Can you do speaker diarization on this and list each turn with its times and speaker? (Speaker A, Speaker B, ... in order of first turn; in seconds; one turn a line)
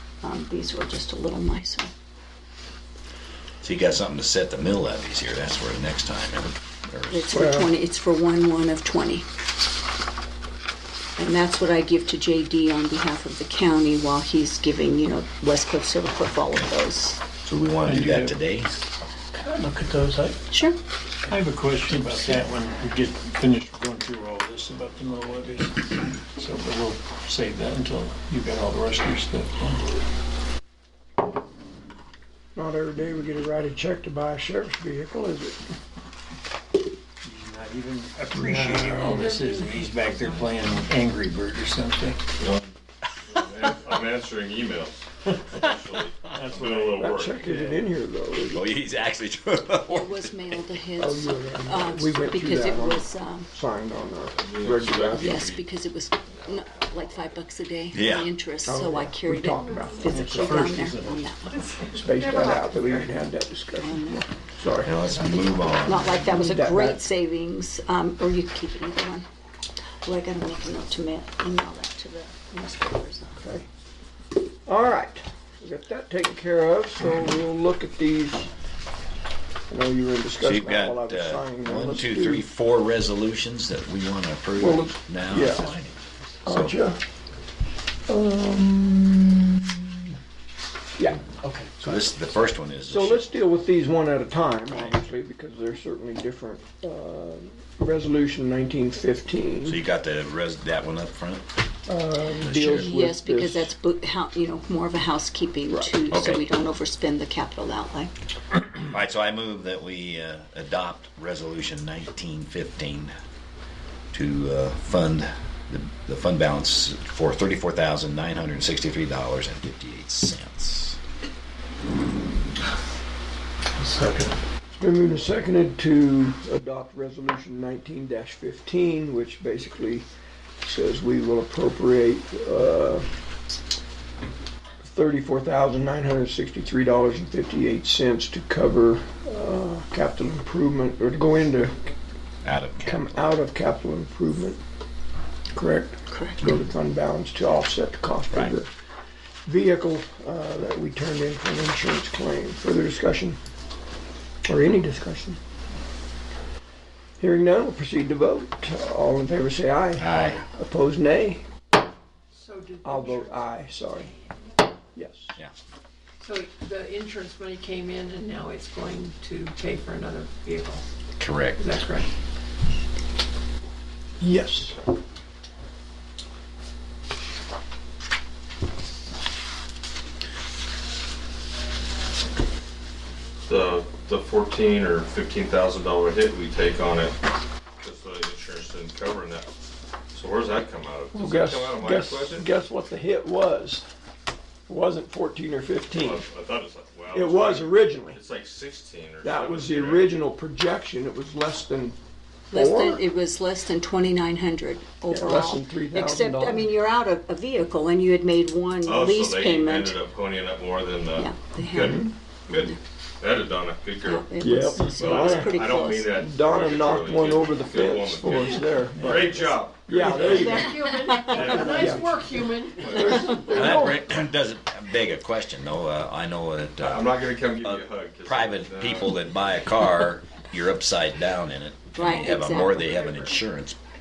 Speaker A: 0.2-1.9
Speaker B: 3.6-7.4
Speaker A: 7.1-9.2
Speaker C: 7.3-7.7
Speaker A: 11.2-17.2
Speaker B: 17.4-18.7
Speaker D: 17.8-18.4
Speaker D: 19.3-20.4
Speaker A: 20.5-20.8
Speaker D: 21.2-29.8
Speaker C: 32.5-35.6
Speaker D: 37.2-42.2
Speaker C: 38.3-39.1
Speaker E: 39.1-40.4
Speaker F: 42.4-42.8
Speaker F: 43.3-47.4
Speaker D: 46.3-47.8
Speaker C: 47.0-48.7
Speaker B: 48.5-50.6
Speaker A: 49.9-53.5
Speaker C: 51.0-55.5
Speaker F: 54.3-55.7
Speaker A: 55.2-61.6
Speaker F: 56.3-57.2
Speaker B: 57.9-58.3
Speaker C: 58.7-60.5
Speaker D: 60.1-61.3
Speaker E: 61.6-63.2
Speaker C: 61.9-67.0
Speaker A: 63.8-64.3
Speaker B: 64.8-66.1
Speaker A: 65.8-69.3
Speaker A: 70.0-73.5
Speaker C: 73.4-73.7
Speaker C: 74.7-78.5
Speaker C: 79.7-82.5
Speaker B: 80.4-86.7
Speaker C: 84.6-85.7
Speaker D: 85.5-86.3
Speaker C: 86.5-87.0
Speaker C: 88.1-89.6
Speaker C: 91.0-91.2
Speaker D: 91.4-92.0
Speaker B: 91.8-93.3
Speaker C: 92.8-99.8
Speaker B: 99.7-101.5
Speaker C: 101.9-103.7
Speaker B: 102.4-102.9
Speaker A: 102.6-108.1
Speaker C: 105.7-106.0
Speaker B: 106.1-106.5
Speaker B: 108.8-113.1
Speaker B: 114.1-121.0
Speaker D: 123.8-124.4
Speaker C: 124.7-130.1
Speaker C: 130.6-133.1
Speaker C: 134.8-141.8
Speaker B: 142.4-143.0
Speaker C: 142.8-144.6
Speaker C: 145.5-148.7
Speaker A: 146.1-146.4
Speaker C: 149.5-153.4
Speaker C: 154.5-155.4
Speaker C: 157.2-161.4
Speaker B: 160.0-160.4
Speaker E: 162.3-164.0
Speaker C: 162.8-164.1
Speaker C: 164.9-165.3
Speaker E: 166.2-170.8
Speaker B: 171.2-171.7
Speaker E: 171.6-172.1
Speaker C: 174.2-174.8
Speaker F: 183.5-187.2
Speaker F: 187.8-189.5
Speaker F: 190.1-192.5
Speaker C: 191.1-193.8
Speaker C: 194.7-196.2
Speaker F: 195.9-200.1
Speaker C: 197.1-198.2
Speaker C: 199.2-202.0
Speaker C: 202.5-203.1
Speaker A: 202.5-210.0
Speaker C: 205.1-206.7
Speaker F: 208.8-220.7
Speaker A: 211.2-212.8
Speaker C: 211.8-212.1
Speaker A: 214.0-216.2
Speaker C: 214.4-222.2
Speaker E: 220.2-223.5
Speaker F: 221.2-223.4
Speaker C: 222.9-224.0
Speaker B: 223.1-233.8
Speaker F: 226.8-229.2
Speaker A: 231.9-233.2